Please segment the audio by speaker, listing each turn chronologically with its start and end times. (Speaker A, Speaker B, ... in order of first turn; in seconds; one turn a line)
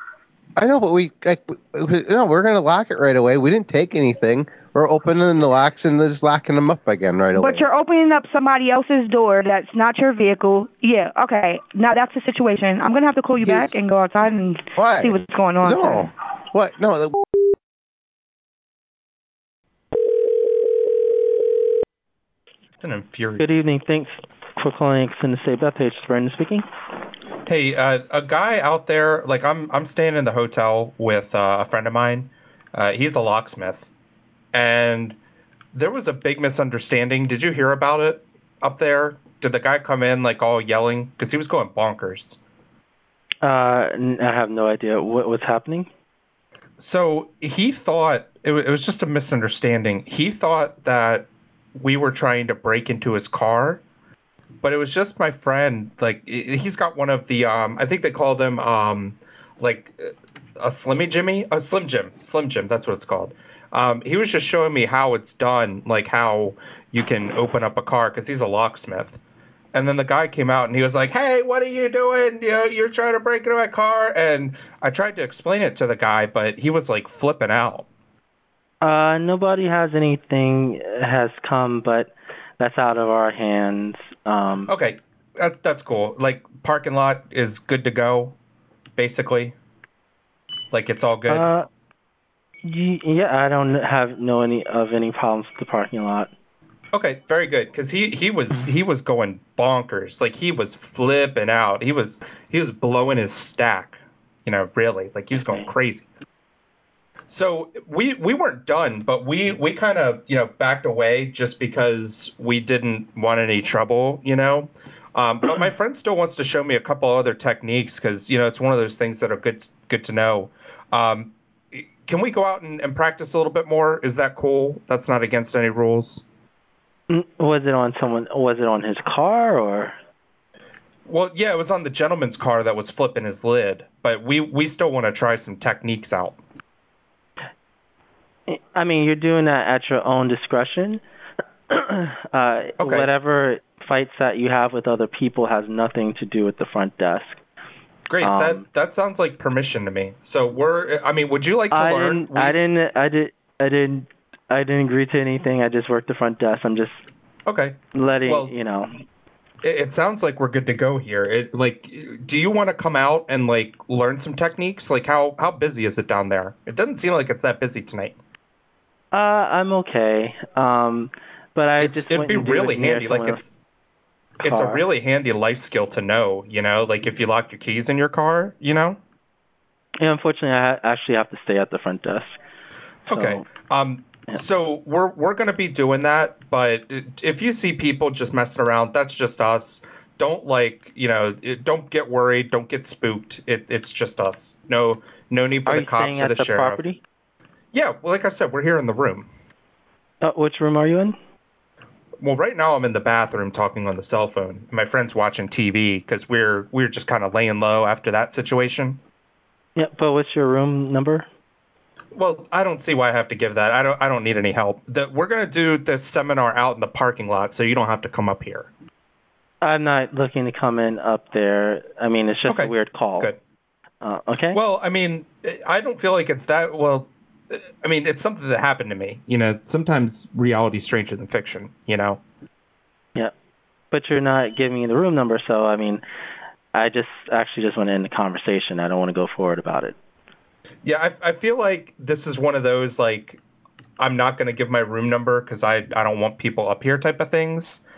Speaker A: 0.6-7.7
Speaker B: 7.4-16.1
Speaker A: 13.4-13.8
Speaker A: 14.8-17.1
Speaker C: 22.8-23.4
Speaker D: 23.4-26.7
Speaker C: 27.5-33.9
Speaker C: 34.5-35.2
Speaker C: 35.7-42.4
Speaker D: 43.4-45.9
Speaker C: 46.8-53.8
Speaker C: 54.6-59.9
Speaker C: 60.6-69.2
Speaker C: 69.7-77.9
Speaker D: 78.8-84.7
Speaker C: 84.7-88.3
Speaker C: 89.0-89.5
Speaker C: 90.7-91.5
Speaker D: 91.3-91.7
Speaker D: 92.7-96.3
Speaker C: 96.9-106.1
Speaker D: 105.4-105.7
Speaker C: 107.3-126.2
Speaker D: 127.1-130.0
Speaker C: 131.1-136.4
Speaker D: 138.5-141.0
Speaker D: 141.7-147.4
Speaker C: 142.8-143.1
Speaker C: 148.1-152.6
Speaker D: 148.2-148.6
Speaker D: 151.7-157.0
Speaker C: 157.5-158.5
Speaker D: 157.9-158.9
Speaker C: 159.6-168.2
Speaker D: 169.1-173.4
Speaker C: 171.8-173.5
Speaker D: 174.4-174.8
Speaker C: 174.4-179.0
Speaker D: 180.0-182.3
Speaker C: 183.1-196.9
Speaker D: 183.1-183.5
Speaker D: 195.7-197.0
Speaker C: 197.7-199.3
Speaker D: 200.2-201.2
Speaker C: 202.2-209.0
Speaker D: 209.8-211.3
Speaker C: 212.2-218.7
Speaker D: 219.6-223.3
Speaker C: 222.5-223.4
Speaker D: 224.0-224.6
Speaker C: 224.5-232.2
Speaker D: 233.9-236.0
Speaker D: 236.7-239.9
Speaker C: 240.8-243.4
Speaker C: 244.0-247.8